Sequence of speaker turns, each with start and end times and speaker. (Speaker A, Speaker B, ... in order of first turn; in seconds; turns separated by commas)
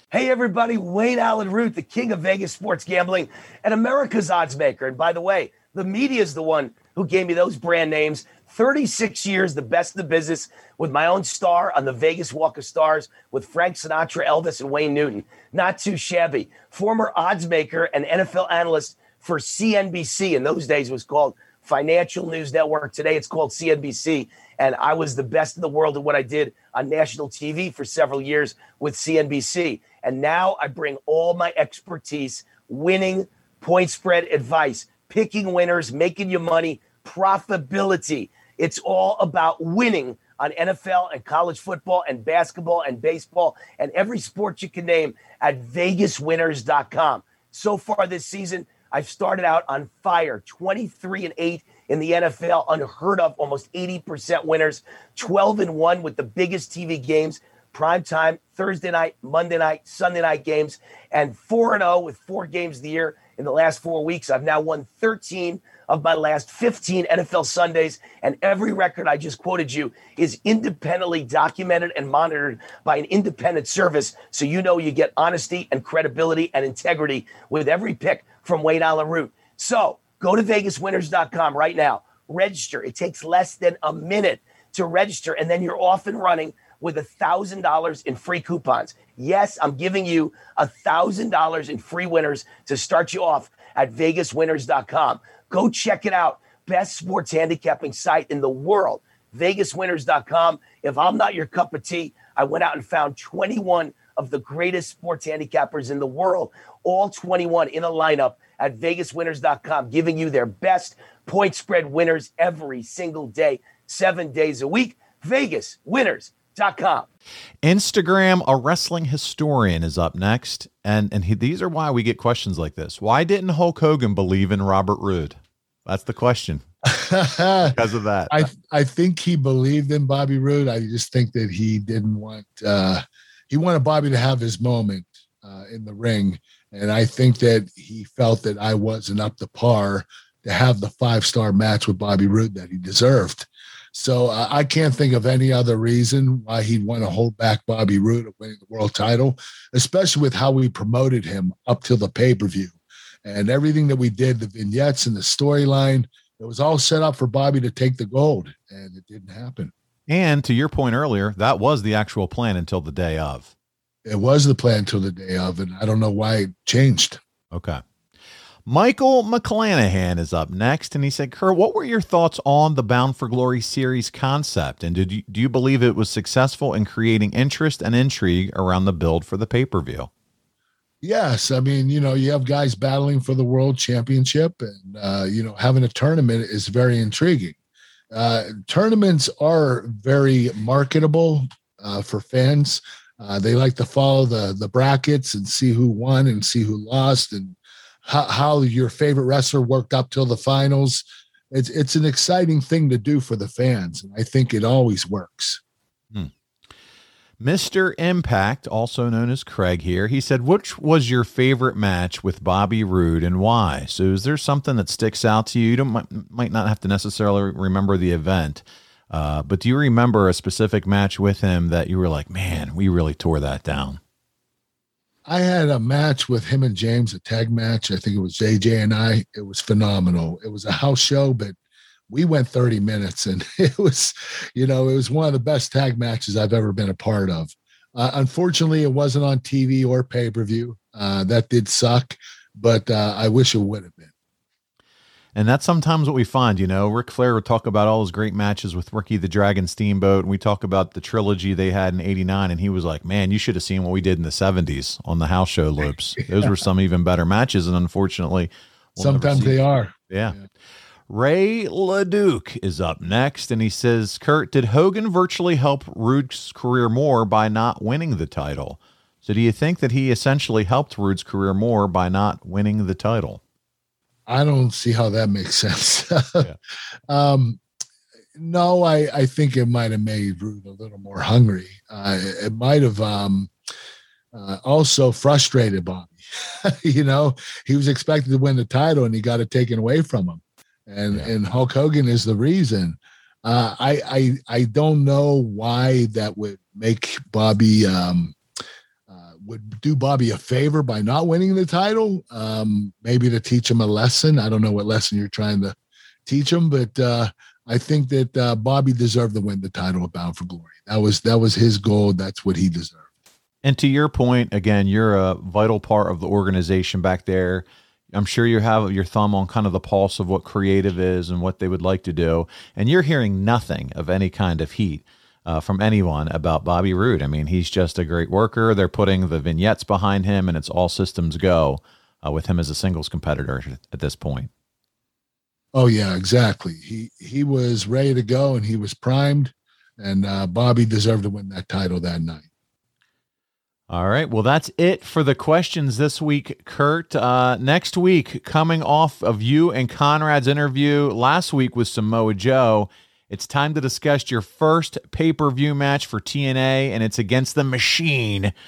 Speaker A: 0.1-117.1, Speaker B: 117.6-126.6, Speaker C: 126.9-127.8, Speaker B: 127.7-128.5, Speaker C: 128.3-159.7, Speaker B: 160.1-163.5, Speaker C: 164.0-167.2, Speaker B: 167.5-167.8, Speaker B: 168.7-180.1, Speaker C: 181.0-187.6, Speaker C: 188.1-205.6, Speaker B: 207.4-224.0, Speaker C: 225.2-231.6, Speaker C: 232.1-244.1, Speaker B: 245.3-259.6, Speaker C: 259.0-259.9, Speaker B: 260.1-260.4, Speaker B: 261.1-273.4, Speaker C: 274.3-276.5, Speaker C: 277.1-277.6, Speaker C: 278.4-283.5, Speaker C: 284.3-298.4, Speaker C: 299.1-313.1, Speaker B: 313.6-334.5, Speaker C: 335.7-342.5, Speaker B: 343.9-358.5